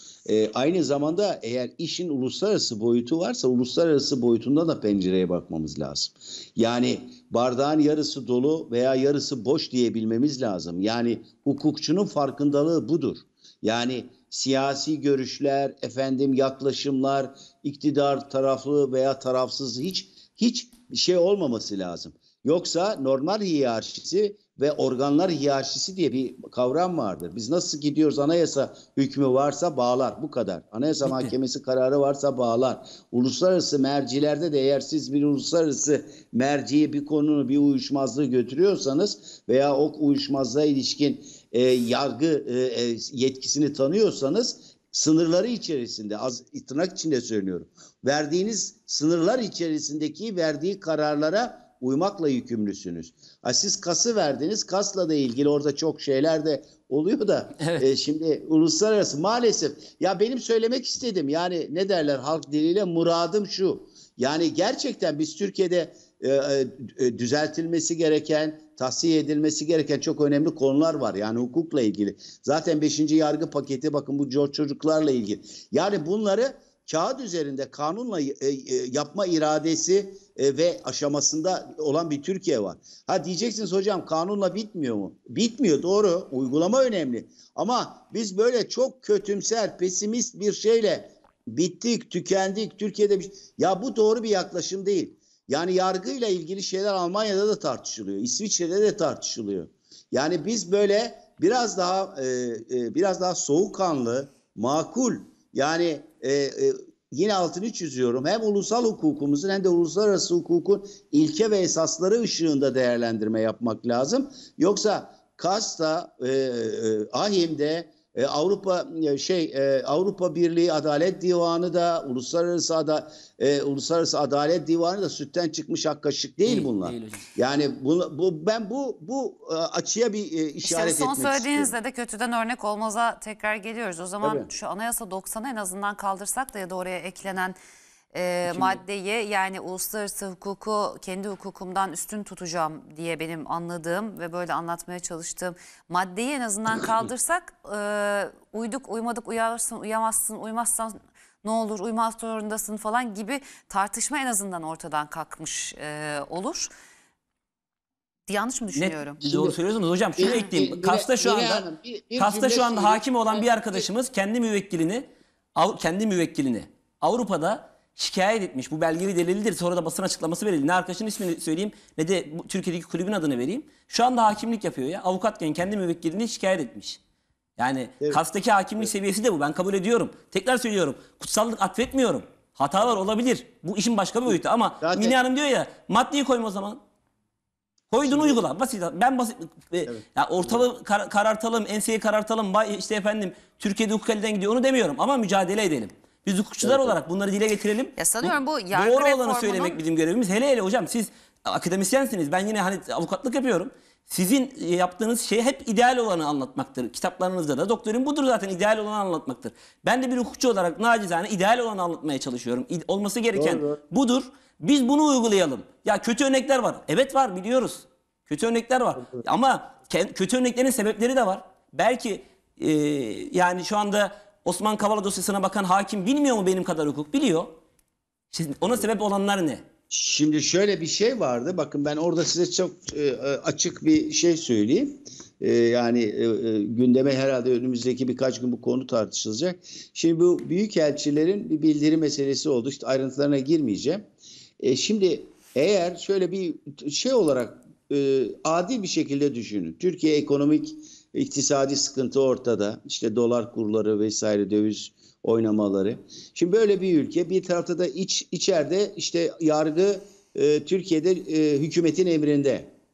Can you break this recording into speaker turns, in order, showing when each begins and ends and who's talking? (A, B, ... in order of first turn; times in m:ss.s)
0:00.3-2:11.7 A
0:31.0-0:31.3 B
2:06.5-2:07.3 B
2:10.6-2:17.6 C
2:14.2-2:14.5 A
2:18.1-2:36.7 C
2:18.5-2:18.8 A
2:38.3-2:39.2 C
2:38.8-2:41.6 B
2:39.2-2:39.6 A
2:40.2-2:43.8 A
2:40.2-2:40.5 C
2:42.2-2:57.0 B
2:57.6-3:06.8 B
3:04.3-3:05.2 A
3:07.9-3:47.6 B
3:08.0-3:08.4 A
3:09.9-3:10.6 A
3:16.6-3:17.0 A
3:18.0-3:19.8 C
3:48.3-3:49.6 B
3:49.9-4:04.1 A
4:04.6-4:22.7 A